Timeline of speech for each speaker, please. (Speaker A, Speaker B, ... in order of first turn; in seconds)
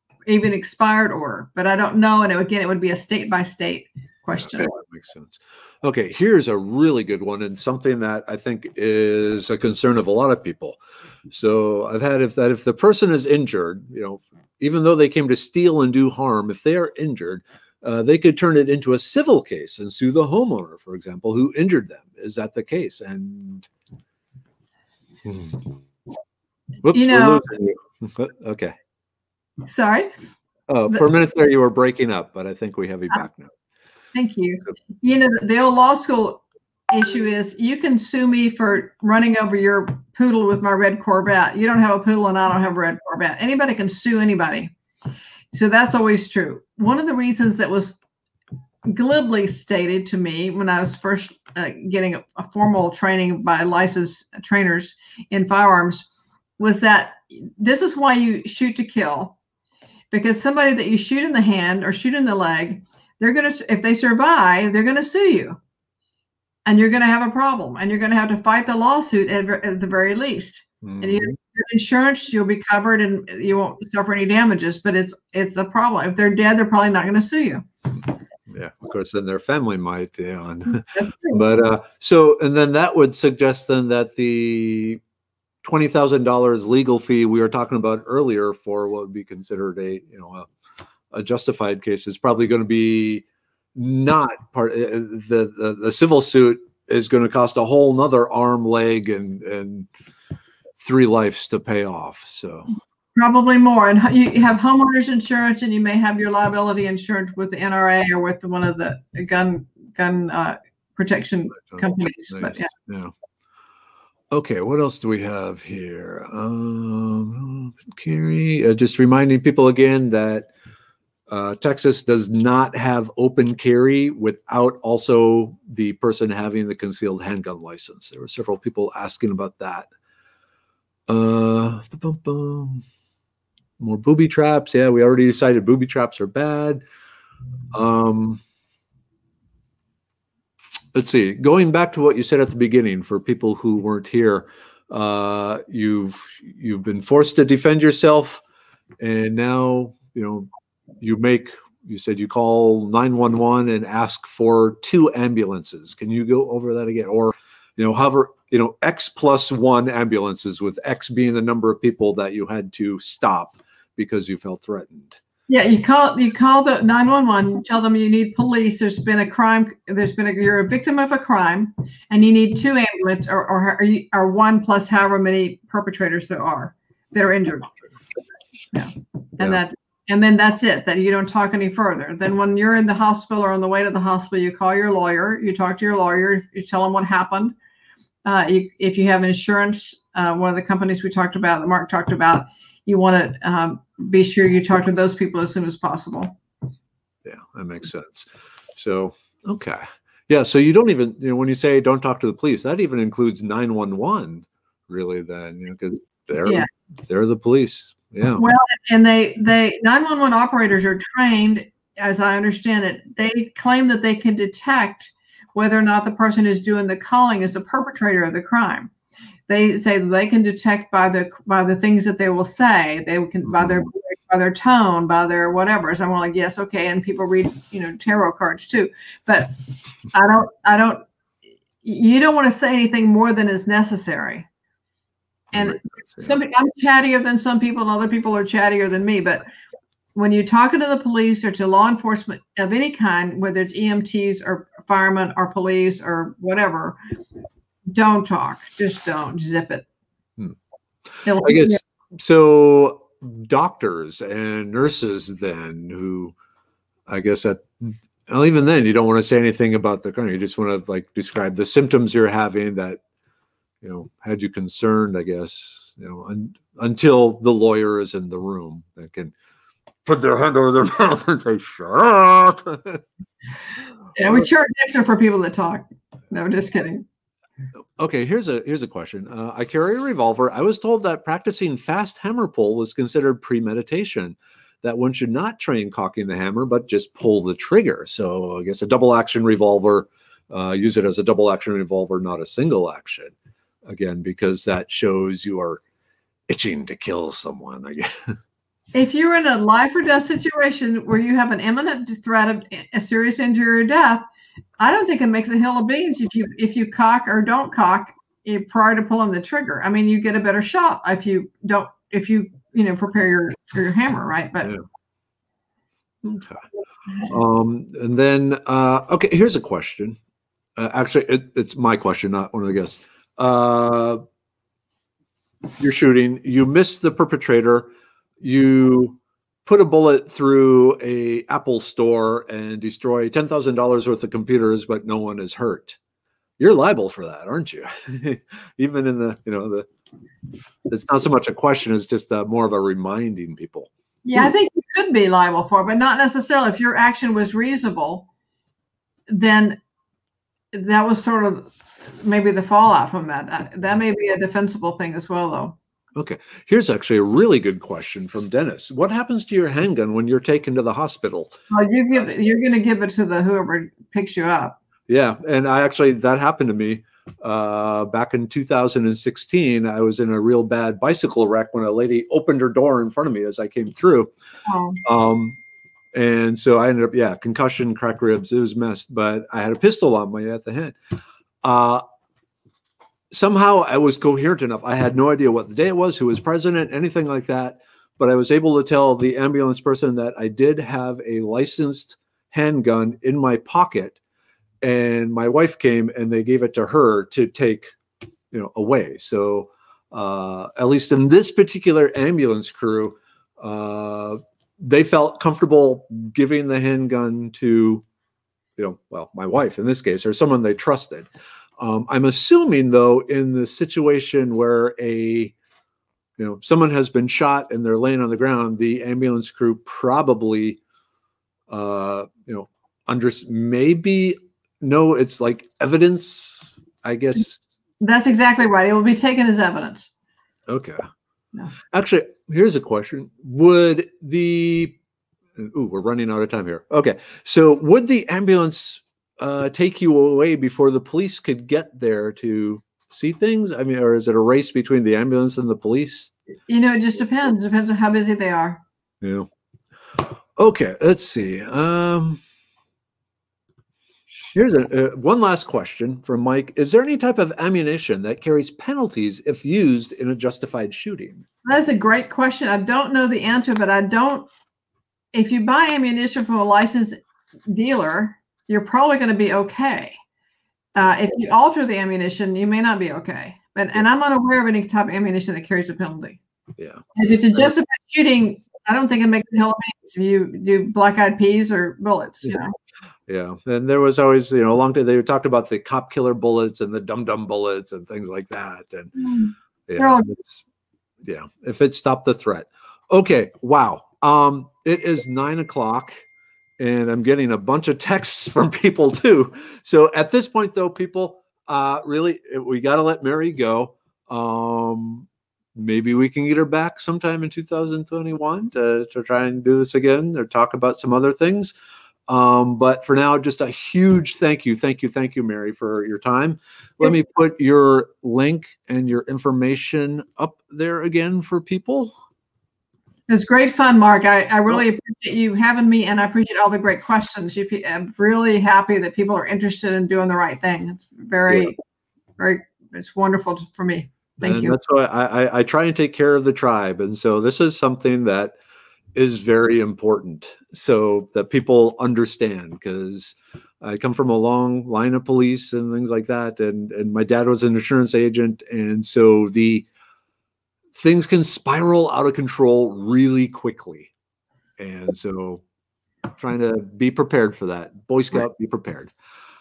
Speaker A: 0.3-4.7, 26.9-27.5, 29.6-30.1, 34.1-44.7, 45.5-48.0, 48.9-56.1, 56.6-59.4, 60.1-65.6, 66.7-77.7, 80.8-81.4, 103.2-112.7, 165.5-177.8, 178.7-187.5, 188.2-196.4, 208.3-218.9, 219.5-231.1, 231.8-234.5, 235.5-239.4, 240.1-247.0, 247.9-249.9, 251.2-251.8, 274.1-277.0, 298.9-304.2, 304.8-314.7, 344.2-348.2, 349.3-349.8, 350.7-351.7, 352.2-355.8, 361.7-364.8, 374.7-375.0, 428.0-430.1, 446.7-448.8, 461.6-464.5, 465.3-470.2, 470.9-476.4, 477.1-482.7, 489.1-490.3, 523.3-531.8, 532.4-534.8
Speaker B: 4.3-10.8, 11.3-23.7, 25.2-25.8, 26.8-28.8, 30.7-33.5, 70.8-71.3, 78.5-85.0, 85.6-90.5, 91.1-99.9, 100.8-102.7, 111.7-113.1, 114.3-120.5, 121.3-129.9, 131.1-132.8, 133.8-136.8, 137.7-138.4, 140.9-148.4, 149.0-150.5, 151.0-165.2, 197.2-208.4, 223.5-223.8, 235.5-236.4, 251.4-256.3, 257.1-263.0, 263.8-269.3, 270.0-273.0, 278.0-293.3, 293.8-295.8, 296.5-298.3, 316.2-316.6, 317.2-320.2, 320.8-324.2, 325.8-327.9, 328.4-336.0, 336.6-339.9, 340.9-344.5, 356.1-361.5, 365.1-374.3, 375.0-375.6, 376.1-381.0, 381.6-382.0, 383.3-394.2, 394.8-397.9, 398.5-408.0, 408.8-415.5, 416.4-420.8, 421.7-427.6, 430.7-431.0, 431.9-435.0, 435.6-446.3, 449.2-449.5, 450.2-452.4, 454.5-461.4, 476.8-477.0, 483.3-489.1, 489.9-490.6, 491.2-496.2, 496.8-511.7, 512.3-522.1, 534.4-538.5, 539.1-549.9, 550.9-554.1, 554.8-555.6, 556.3-559.1